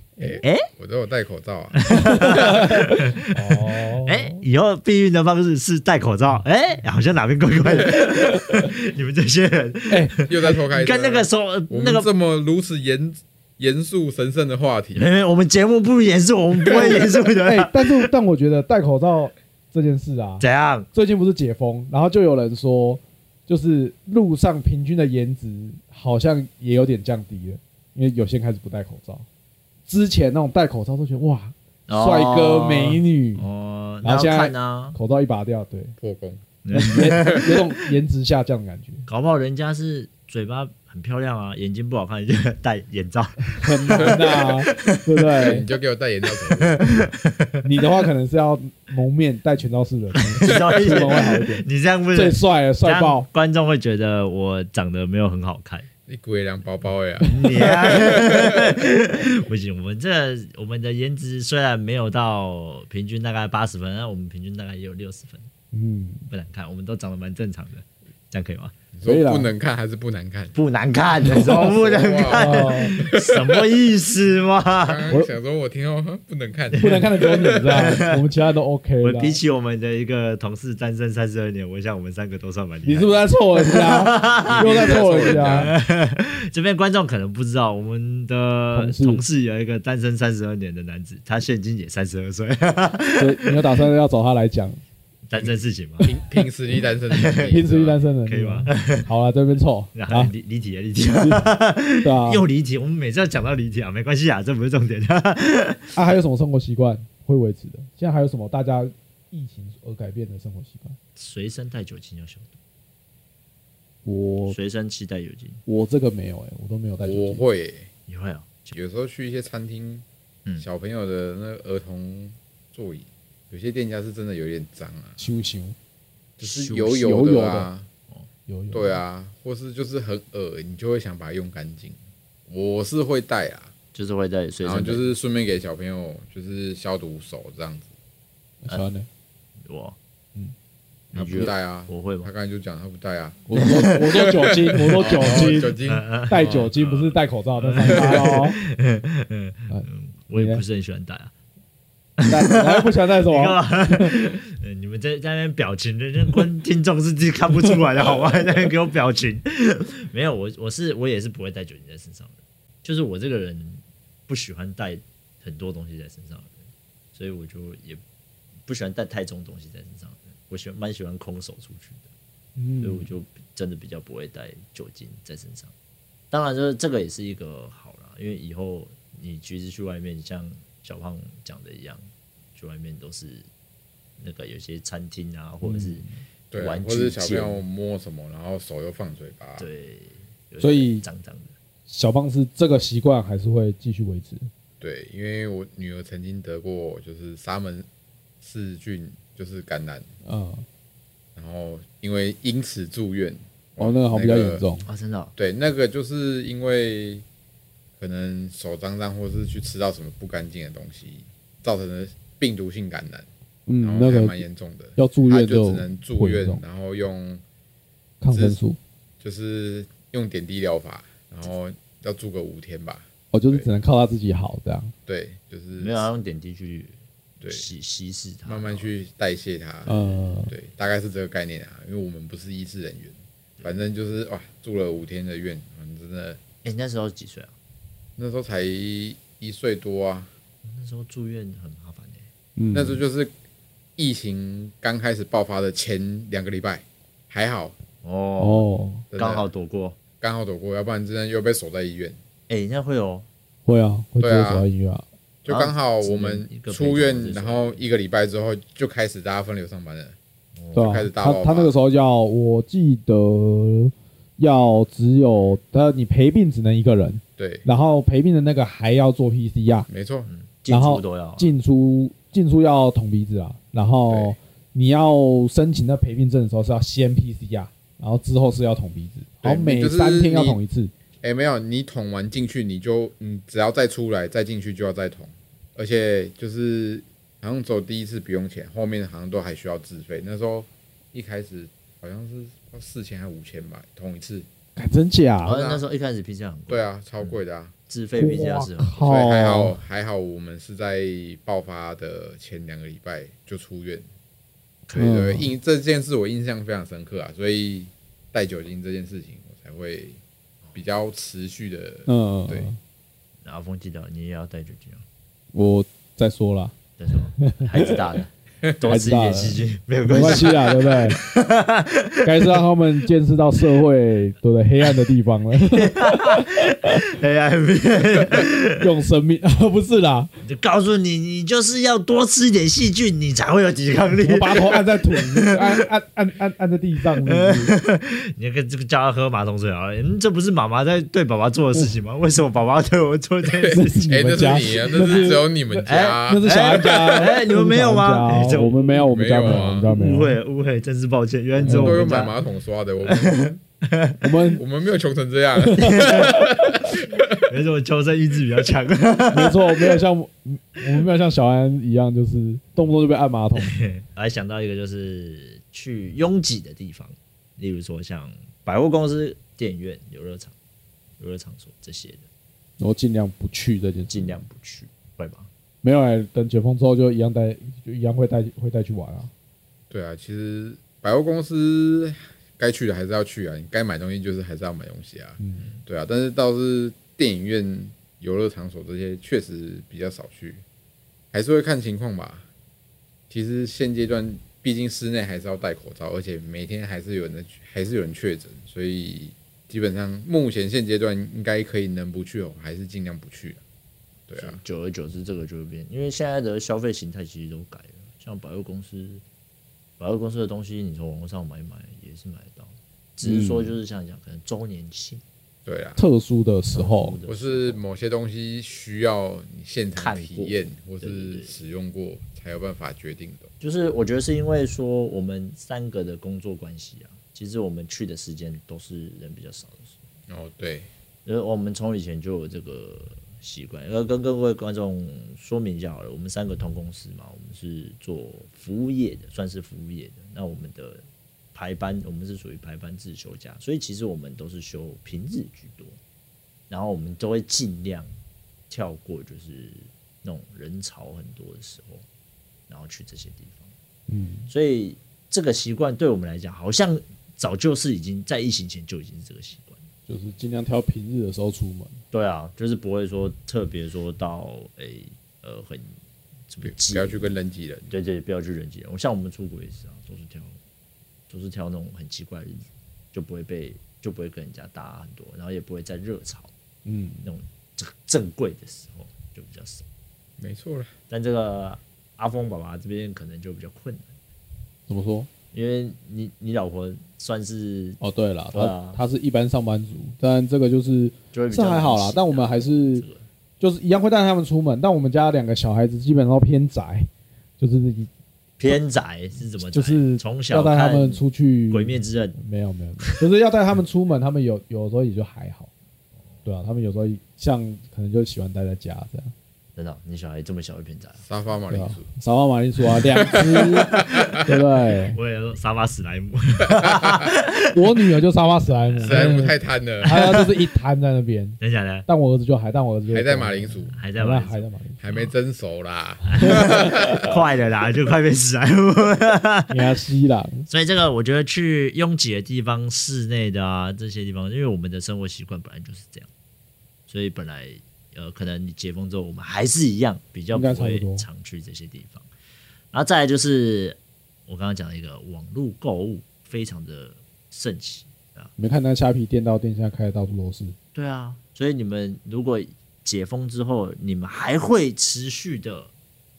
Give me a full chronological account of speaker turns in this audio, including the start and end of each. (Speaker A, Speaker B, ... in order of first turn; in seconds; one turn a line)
Speaker A: 0.2-0.4
Speaker B: 0.2-2.6
Speaker C: 0.4-0.7
Speaker C: 1.8-12.1
Speaker A: 2.1-4.4
Speaker A: 7.7-8.7
Speaker A: 9.9-10.6
Speaker B: 10.2-15.1
Speaker C: 14.9-18.1
Speaker A: 16.6-29.3
Speaker C: 20.4-20.9
Speaker A: 29.9-33.5
Speaker C: 31.9-35.0
Speaker A: 34.0-36.0
Speaker B: 36.0-36.4
Speaker C: 36.6-37.5
Speaker A: 36.7-39.0
Speaker C: 39.1-45.1
Speaker A: 43.6-45.7
Speaker B: 44.0-44.2
Speaker B: 45.4-46.9
Speaker C: 46.5-47.6
Speaker A: 47.6-53.3
Speaker C: 50.1-55.9
Speaker B: 56.1-58.6
Speaker C: 57.3-65.5
Speaker A: 65.7-66.3
Speaker C: 66.3-68.8
Speaker B: 68.9-70.5
Speaker A: 69.0-69.5
Speaker C: 70.5-75.0
Speaker B: 71.3-73.6
Speaker A: 71.3-71.7
Speaker A: 72.3-73.0
Speaker B: 74.8-77.8
Speaker C: 76.7-78.2
Speaker A: 76.8-79.4
Speaker C: 79.0-93.6
Speaker A: 82.9-85.7
Speaker B: 84.4-85.8
Speaker A: 88.7-89.2
Speaker A: 93.2-94.8
Speaker C: 95.3-96.1
Speaker B: 96.0-98.0
Speaker C: 97.1-97.6
Speaker A: 97.5-100.3
Speaker C: 98.3-99.1
Speaker C: 99.9-106.2
Speaker A: 101.2-101.5
Speaker A: 102.0-102.4
Speaker A: 106.0-111.0
Speaker C: 111.2-112.6
Speaker A: 114.0-114.6
Speaker C: 114.5-115.6
Speaker A: 115.7-117.4
Speaker B: 117.0-117.9
Speaker C: 118.1-118.7
Speaker B: 118.7-120.0
Speaker B: 120.6-125.2
Speaker A: 125.2-125.8
Speaker B: 126.4-127.9
Speaker C: 126.4-127.0
Speaker A: 126.9-127.7
Speaker A: 128.5-129.0
Speaker B: 128.7-133.7
Speaker C: 133.9-135.1
Speaker B: 134.6-137.9
Speaker A: 138.6-139.1
Speaker C: 139.6-140.0
Speaker C: 141.1-142.3
Speaker B: 141.1-146.7
Speaker A: 143.5-145.8
Speaker C: 143.6-143.9
Speaker C: 144.9-151.3
Speaker A: 146.3-148.6
Speaker B: 147.9-148.3
Speaker A: 149.7-150.6
Speaker C: 152.2-166.6
Speaker A: 152.3-154.1
Speaker C: 167.1-168.0
Speaker C: 168.7-172.1
Speaker A: 172.6-173.1
Speaker C: 172.8-175.7
Speaker C: 176.3-183.5
Speaker C: 184.2-187.6
Speaker A: 185.6-186.1
Speaker B: 186.5-189.7
Speaker C: 189.6-191.5
Speaker A: 190.6-191.1
Speaker A: 191.9-194.5
Speaker B: 194.8-197.9
Speaker B: 198.4-200.1
Speaker A: 200.2-200.7
Speaker B: 201.4-204.7
Speaker A: 203.8-204.9
Speaker C: 204.8-205.3
Speaker B: 205.4-207.2
Speaker B: 208.0-213.3
Speaker A: 213.7-214.4
Speaker B: 213.8-217.4
Speaker A: 215.0-216.6
Speaker A: 218.2-218.8
Speaker B: 218.3-218.6
Speaker B: 219.2-223.7
Speaker A: 223.3-224.9
Speaker B: 225.1-226.1
Speaker C: 225.8-228.9
Speaker B: 227.4-227.7
Speaker B: 228.4-236.4
Speaker A: 229.9-230.5
Speaker C: 236.6-237.5
Speaker B: 238.2-240.3
Speaker C: 240.6-242.3
Speaker A: 242.6-243.0
Speaker B: 242.7-243.3
Speaker B: 244.0-247.8
Speaker C: 248.0-250.0
Speaker A: 248.4-249.1
Speaker B: 249.1-249.5
Speaker B: 250.2-252.2
Speaker C: 252.5-253.3
Speaker A: 253.7-255.0
Speaker B: 254.2-254.7
Speaker B: 255.4-260.2
Speaker C: 255.5-257.9
Speaker C: 260.6-260.9
Speaker B: 260.7-261.7
Speaker A: 260.8-269.9
Speaker B: 267.4-267.7
Speaker B: 269.9-270.3
Speaker C: 270.3-271.5
Speaker A: 270.7-280.9
Speaker B: 274.1-274.4
Speaker B: 279.4-280.6
Speaker B: 281.2-294.5
Speaker A: 294.8-295.6
Speaker C: 295.4-297.4
Speaker B: 295.4-295.8
Speaker B: 296.7-297.7
Speaker C: 297.9-299.1
Speaker A: 298.2-299.8
Speaker B: 299.0-304.1
Speaker B: 304.9-310.2
Speaker A: 304.9-305.5
Speaker B: 310.7-312.7
Speaker A: 312.1-312.8
Speaker C: 313.4-315.0
Speaker A: 315.5-316.8
Speaker C: 317.0-322.6
Speaker A: 317.4-318.0
Speaker A: 318.8-321.2
Speaker A: 322.2-327.0
Speaker C: 325.6-328.8
Speaker A: 328.8-330.3
Speaker C: 330.4-335.6
Speaker A: 334.2-337.7
Speaker C: 337.3-344.1
Speaker B: 343.6-347.3
Speaker A: 343.7-350.4
Speaker C: 345.9-352.4
Speaker B: 348.9-349.9
Speaker B: 351.6-353.6
Speaker A: 351.6-352.1
Speaker C: 353.1-354.2
Speaker A: 354.2-354.6
Speaker B: 354.6-357.4
Speaker A: 355.6-356.9
Speaker C: 355.8-356.4
Speaker C: 357.4-360.0
Speaker A: 359.3-363.8
Speaker C: 363.6-370.5
Speaker C: 371.2-372.3
Speaker A: 372.8-374.4
Speaker C: 374.1-375.5
Speaker A: 375.8-379.3
Speaker B: 379.9-390.6
Speaker A: 385.4-385.7
Speaker B: 391.3-392.5
Speaker B: 393.3-403.6
Speaker B: 404.3-404.6
Speaker C: 404.4-409.2
Speaker C: 410.0-415.2
Speaker A: 413.2-413.8
Speaker B: 415.7-416.0
Speaker A: 416.0-417.2
Speaker C: 416.7-417.8
Speaker B: 417.3-423.5
Speaker C: 420.0-421.6
Speaker C: 423.6-430.0
Speaker B: 430.3-430.9
Speaker C: 431.2-446.0
Speaker C: 446.7-448.1
Speaker C: 448.7-452.1
Speaker C: 452.7-453.7
Speaker A: 454.1-454.5
Speaker C: 454.5-459.8
Speaker A: 460.1-462.0
Speaker C: 462.1-466.0
Speaker C: 466.5-467.3
Speaker B: 466.6-467.9
Speaker C: 467.9-470.6
Speaker C: 471.3-476.5
Speaker A: 476.9-477.3
Speaker C: 477.2-479.9
Speaker B: 480.4-480.9
Speaker C: 481.1-484.1
Speaker A: 484.9-485.3
Speaker C: 485.5-488.0
Speaker A: 488.0-493.1
Speaker C: 488.5-489.0
Speaker C: 491.3-493.2
Speaker A: 493.6-498.1
Speaker C: 498.6-502.4
Speaker A: 499.7-505.7
Speaker A: 506.5-509.3
Speaker C: 509.8-511.2
Speaker B: 511.2-512.1
Speaker A: 511.7-515.2
Speaker B: 513.2-514.4
Speaker C: 513.3-514.4
Speaker C: 515.1-518.0
Speaker B: 517.0-517.2
Speaker A: 517.7-525.0
Speaker C: 518.9-519.5
Speaker B: 519.0-520.2
Speaker C: 520.1-520.5
Speaker C: 521.6-522.1
Speaker B: 523.1-524.0
Speaker C: 523.9-525.3
Speaker B: 525.0-527.3
Speaker C: 526.2-529.8
Speaker A: 526.4-527.4
Speaker A: 529.7-530.7
Speaker C: 530.7-536.3
Speaker C: 537.1-542.3
Speaker A: 540.5-541.3
Speaker C: 542.9-548.5
Speaker A: 548.6-550.8
Speaker C: 550.9-555.9